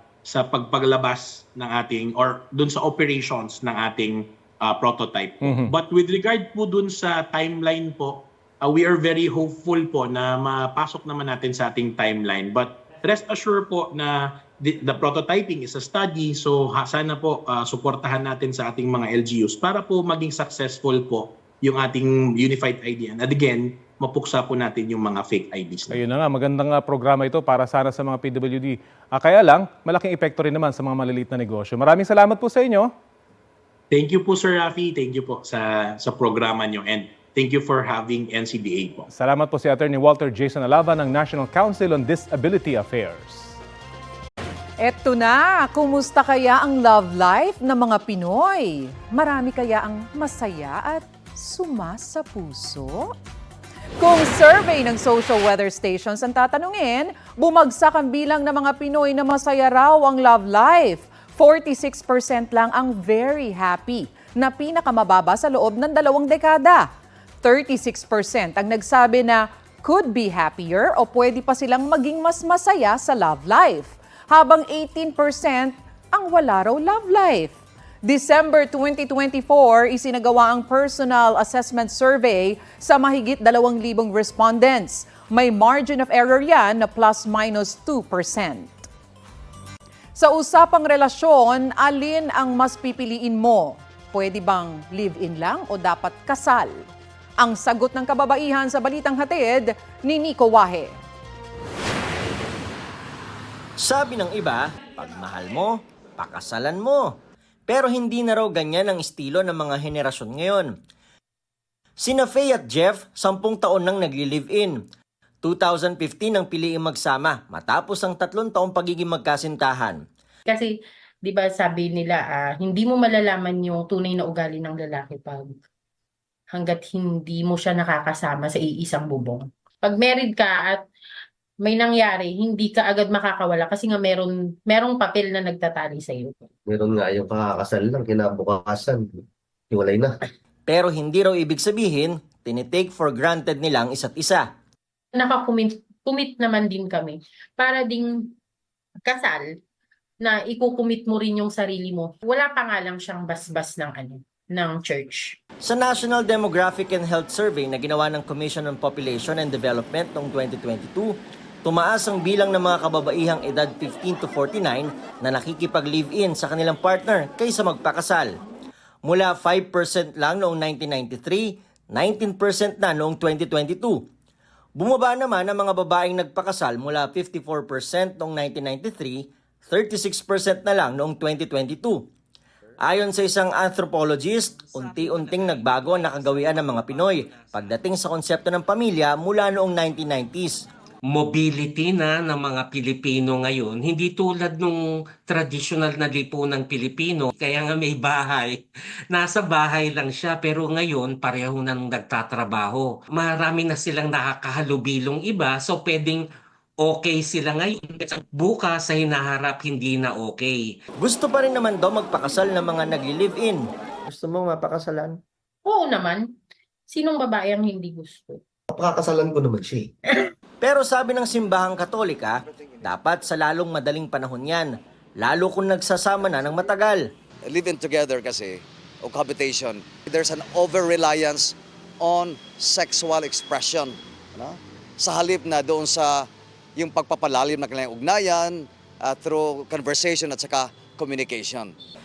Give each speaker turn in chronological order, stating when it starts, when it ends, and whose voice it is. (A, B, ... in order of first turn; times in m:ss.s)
0:00.2-0:26.0 A
0:05.4-0:05.7 B
0:25.9-0:32.9 B
0:33.9-0:39.0 A
0:39.1-0:43.6 B
0:44.8-0:53.1 C
0:54.0-1:06.8 C
1:07.4-1:28.9 C
1:30.2-1:36.8 C
1:37.4-1:41.0 C
1:43.8-1:47.1 D
1:47.7-1:50.7 D
1:52.0-1:54.8 D
1:55.4-2:00.0 D
2:00.5-2:00.7 E
2:01.2-2:05.5 E
2:06.5-2:10.8 E
2:11.6-2:16.5 E
2:16.7-2:19.2 F
2:19.7-2:20.1 F
2:20.7-2:24.4 D
2:25.1-2:28.1 E
2:29.0-2:29.5 E
2:30.2-2:35.4 E
2:35.6-2:48.3 D
2:49.0-2:54.0 D
2:54.8-3:02.0 D
3:02.8-3:10.6 D
3:11.0-3:26.2 G
3:26.8-3:30.7 G
3:31.0-3:33.6 D
3:35.6-3:36.2 E
3:36.9-3:38.4 E
3:38.7-3:39.9 F
3:40.6-3:47.0 D
3:47.5-3:56.1 H
3:56.8-4:01.7 H